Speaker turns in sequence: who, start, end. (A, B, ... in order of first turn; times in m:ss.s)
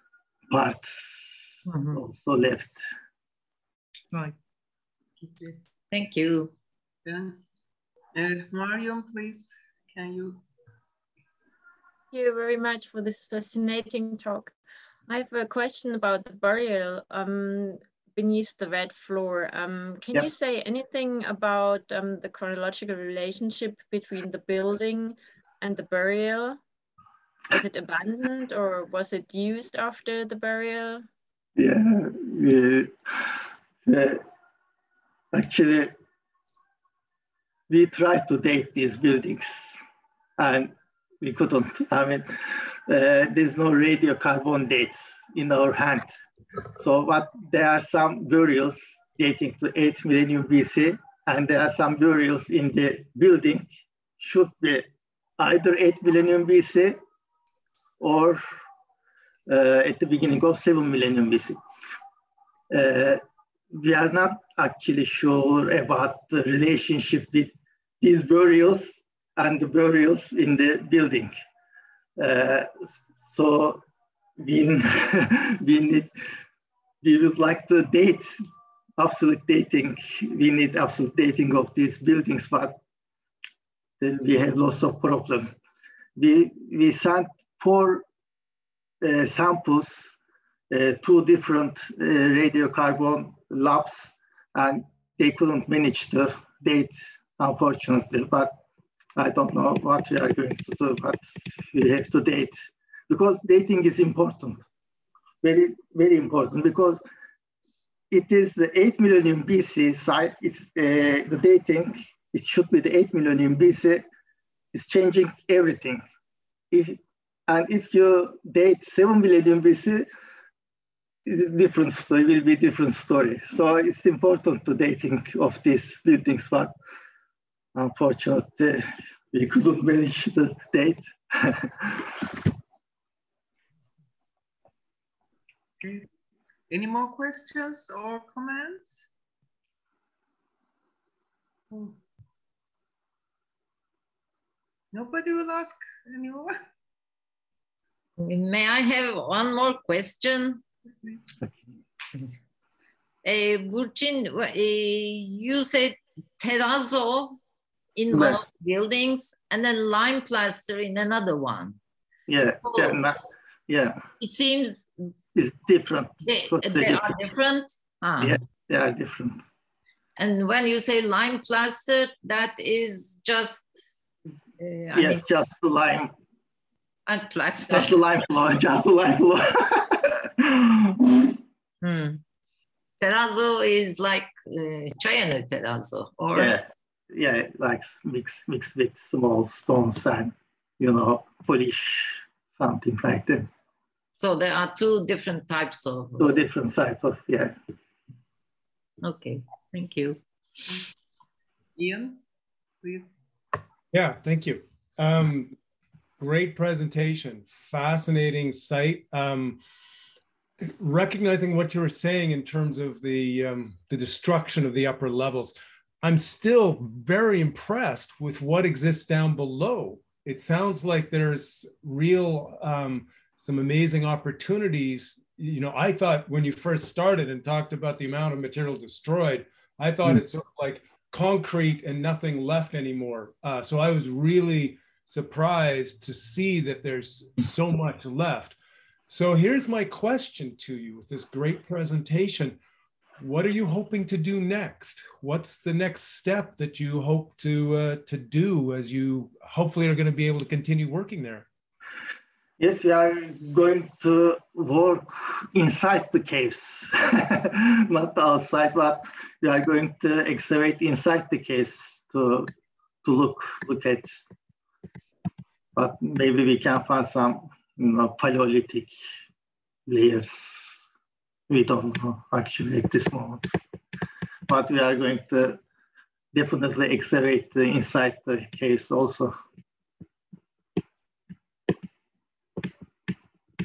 0:00.5-0:01.2 A
0:01.7-0:02.0 B
0:01.9-0:02.8 A
0:05.2-0:05.6 C
0:05.9-0:06.5 B
0:07.0-0:07.5 C
0:08.1-0:10.4 C
0:12.1-0:14.5 D
0:15.1-0:26.6 D
0:27.5-0:31.0 D
0:31.6-0:33.3 A
0:33.8-0:34.2 A
0:35.3-0:35.9 A
0:37.7-0:39.7 A
0:40.4-0:42.3 A
0:42.9-0:46.1 A
0:46.8-0:53.7 A
0:54.2-0:54.9 A
0:55.4-0:57.0 A
0:58.0-0:58.4 A
0:59.5-1:01.6 A
1:02.7-1:03.2 A
1:03.7-1:11.3 A
1:12.2-1:13.8 A
1:14.4-1:16.1 A
1:17.0-1:18.4 A
1:19.0-1:22.8 A
1:24.0-1:25.5 A
1:26.2-1:28.0 A
1:29.0-1:30.1 A
1:30.7-1:38.5 A
1:39.2-1:42.6 A
1:43.1-1:44.6 A
1:45.4-1:47.0 A
1:48.1-1:54.0 A
1:54.7-1:56.0 A
1:56.7-2:00.1 A
2:01.2-2:06.7 A
2:07.7-2:12.2 A
2:15.8-2:16.1 C
2:16.7-2:19.0 C
2:21.7-2:22.0 C
2:24.9-2:26.6 C
2:28.2-2:30.6 B
2:30.8-2:31.4 C
2:33.2-2:37.4 B
2:38.0-2:41.8 B
2:38.1-2:38.4 A
2:42.3-2:44.0 A
2:42.6-2:43.0 B
2:44.2-2:44.9 B
2:45.3-2:47.1 A
2:46.2-2:48.4 B
2:48.2-2:49.4 A
2:50.2-2:53.9 B
2:54.6-2:55.2 B
2:54.9-2:56.1 A
2:57.0-2:58.0 B
2:57.7-3:01.3 A
3:01.8-3:02.2 B
3:03.0-3:06.6 B
3:06.3-3:13.5 A
3:14.2-3:16.4 B
3:16.2-3:17.5 A
3:19.0-3:20.2 B
3:21.8-3:22.2 C
3:22.8-3:23.1 C
3:23.9-3:25.6 E
3:26.2-3:29.6 E
3:30.8-3:58.6 E
3:59.1-4:02.6 E
4:03.2-4:11.4 E
4:12.6-4:22.5 A
4:23.0-4:24.2 A
4:25.8-4:28.9 A
4:29.9-4:30.7 A
4:31.5-4:33.5 A
4:34.5-4:35.6 A
4:36.3-4:39.3 A